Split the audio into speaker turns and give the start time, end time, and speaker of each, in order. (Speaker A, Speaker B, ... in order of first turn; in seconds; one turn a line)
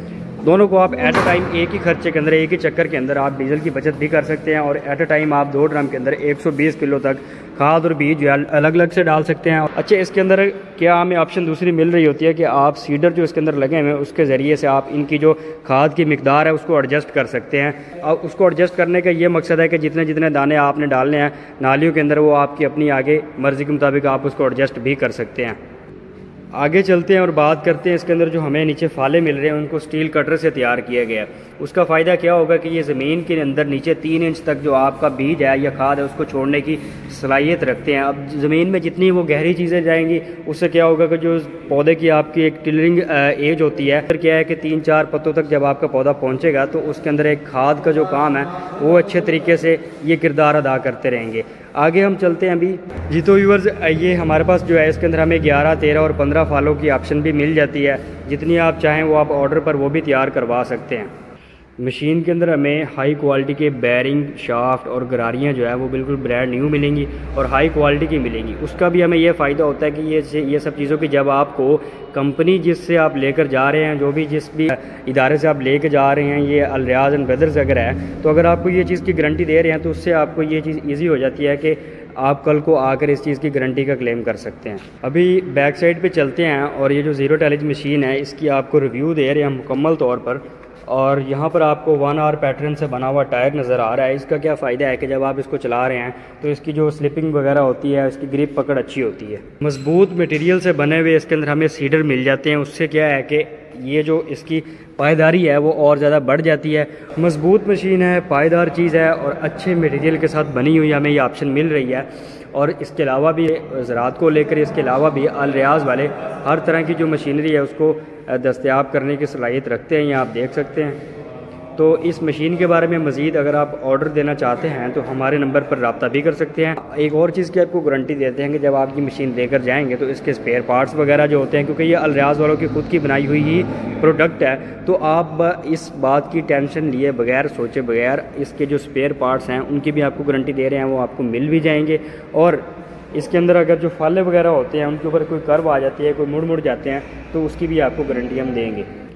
Speaker A: 0.4-25.6
Speaker A: 26.5-61.1
Speaker A: 61.8-121.0
Speaker A: 121.8-148.9